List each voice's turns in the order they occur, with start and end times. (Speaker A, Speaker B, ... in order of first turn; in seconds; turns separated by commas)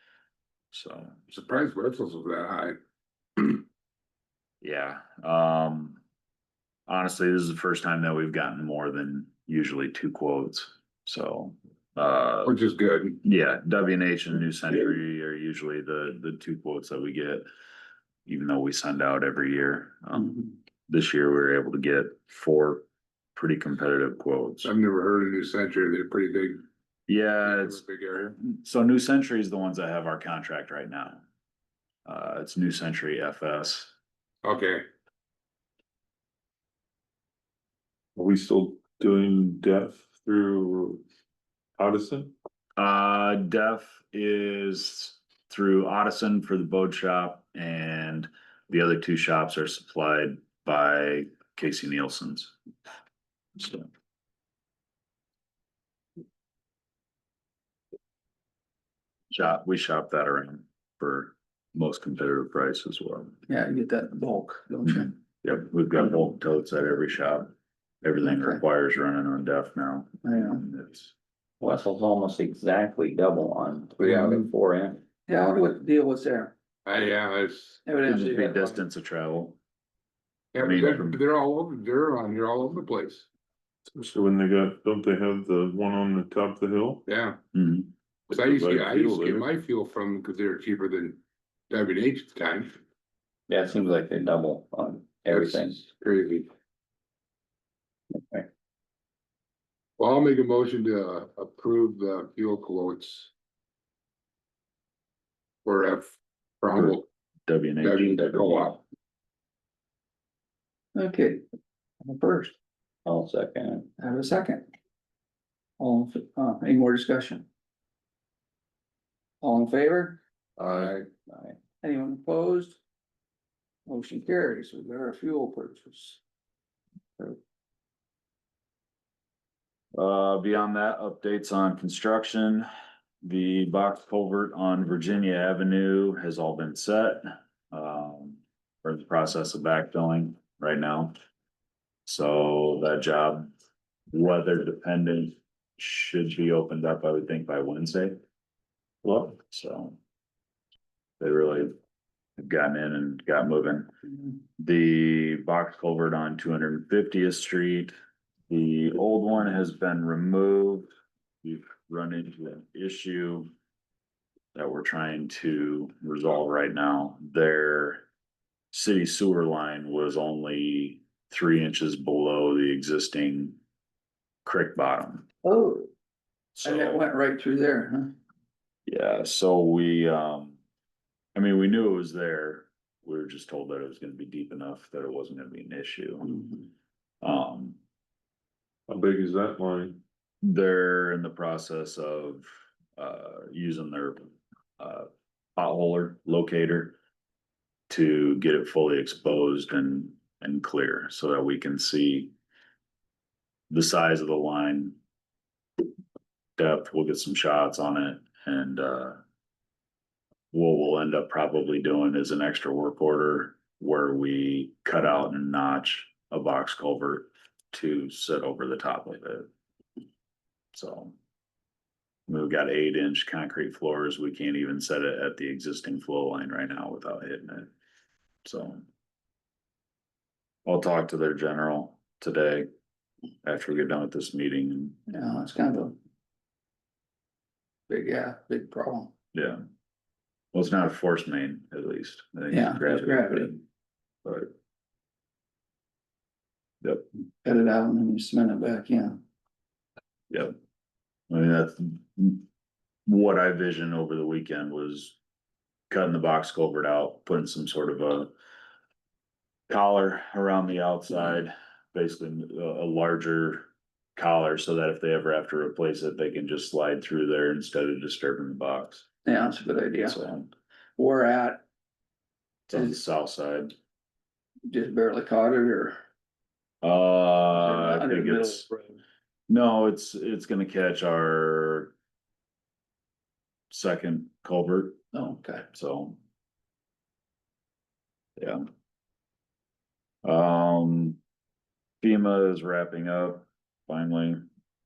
Speaker A: 0.7-1.2, Speaker B: 1.3-2.8, Speaker B: 3.4-3.6, Speaker A: 4.6-6.0, Speaker A: 6.9-12.5, Speaker B: 12.4-13.2, Speaker A: 13.2-17.4, Speaker A: 18.2-24.7, Speaker B: 24.6-26.6, Speaker A: 27.1-31.2, Speaker B: 27.4-28.4, Speaker A: 32.0-33.9, Speaker B: 34.4-34.8, Speaker C: 38.1-41.0, Speaker C: 41.8-42.3, Speaker A: 42.8-52.5, Speaker A: 53.6-53.9, Speaker A: 59.3-63.4, Speaker D: 63.5-65.1, Speaker A: 65.4-71.1, Speaker D: 68.2-68.6, Speaker D: 70.2-70.6, Speaker E: 71.6-75.0, Speaker D: 75.3-76.5, Speaker B: 76.8-77.8, Speaker D: 77.8-78.8, Speaker A: 78.0-79.6, Speaker B: 80.5-83.2, Speaker A: 80.6-81.2, Speaker C: 83.9-87.0, Speaker B: 87.0-87.4, Speaker A: 87.5-87.9, Speaker B: 88.3-92.8, Speaker C: 88.3-89.5, Speaker E: 93.5-95.9, Speaker B: 95.3-96.5, Speaker E: 98.1-98.5, Speaker B: 100.0-103.3, Speaker B: 105.6-107.0, Speaker A: 106.7-108.8, Speaker B: 107.8-108.8, Speaker D: 110.9-111.4, Speaker D: 112.0-112.5, Speaker E: 113.0-113.9, Speaker D: 114.0-114.7, Speaker D: 115.8-117.5, Speaker D: 119.4-120.2, Speaker E: 120.6-121.5, Speaker D: 121.8-122.8, Speaker D: 123.9-126.2, Speaker A: 129.9-132.7, Speaker A: 133.2-141.1, Speaker A: 142.1-143.5, Speaker A: 144.1-148.2, Speaker C: 149.0-149.3, Speaker A: 149.3-150.0, Speaker A: 151.2-151.7, Speaker A: 152.4-153.9, Speaker A: 154.6-157.9, Speaker A: 158.5-163.5, Speaker A: 164.5-168.0, Speaker A: 168.7-173.6, Speaker A: 174.4-175.2, Speaker D: 175.4-175.9, Speaker A: 176.6-177.1, Speaker D: 176.6-178.1, Speaker A: 178.9-180.6, Speaker A: 181.3-186.5, Speaker A: 187.2-187.8, Speaker C: 188.9-190.0, Speaker A: 190.4-196.9, Speaker A: 197.9-202.3, Speaker A: 203.7-204.9, Speaker A: 206.6-209.2, Speaker A: 210.5-219.5, Speaker A: 220.7-221.1, Speaker A: 222.3-227.7, Speaker A: 228.4-228.8, Speaker A: 230.7-232.7, Speaker A: 233.4-235.0, Speaker D: 235.1-236.0, Speaker D: 237.9-239.1, Speaker A: 239.3-239.6, Speaker A: 240.5-243.6, Speaker D: 242.5-243.5, Speaker A: 244.2-244.5, Speaker D: 247.4-249.2, Speaker A: 250.3-250.5, Speaker A: 251.3-252.4, Speaker A: 253.1-255.2, Speaker A: 255.9-258.3, Speaker A: 259.7-269.1, Speaker D: 269.2-270.2, Speaker A: 270.0-270.5, Speaker D: 271.0-271.6, Speaker A: 272.7-273.7, Speaker D: 274.7-276.0, Speaker A: 276.8-278.7, Speaker D: 277.5-278.9, Speaker A: 279.5-281.9, Speaker A: 283.7-285.0, Speaker D: 285.1-285.6, Speaker A: 285.7-286.2, Speaker A: 288.4-288.6, Speaker A: 290.2-291.2, Speaker A: 292.0-294.4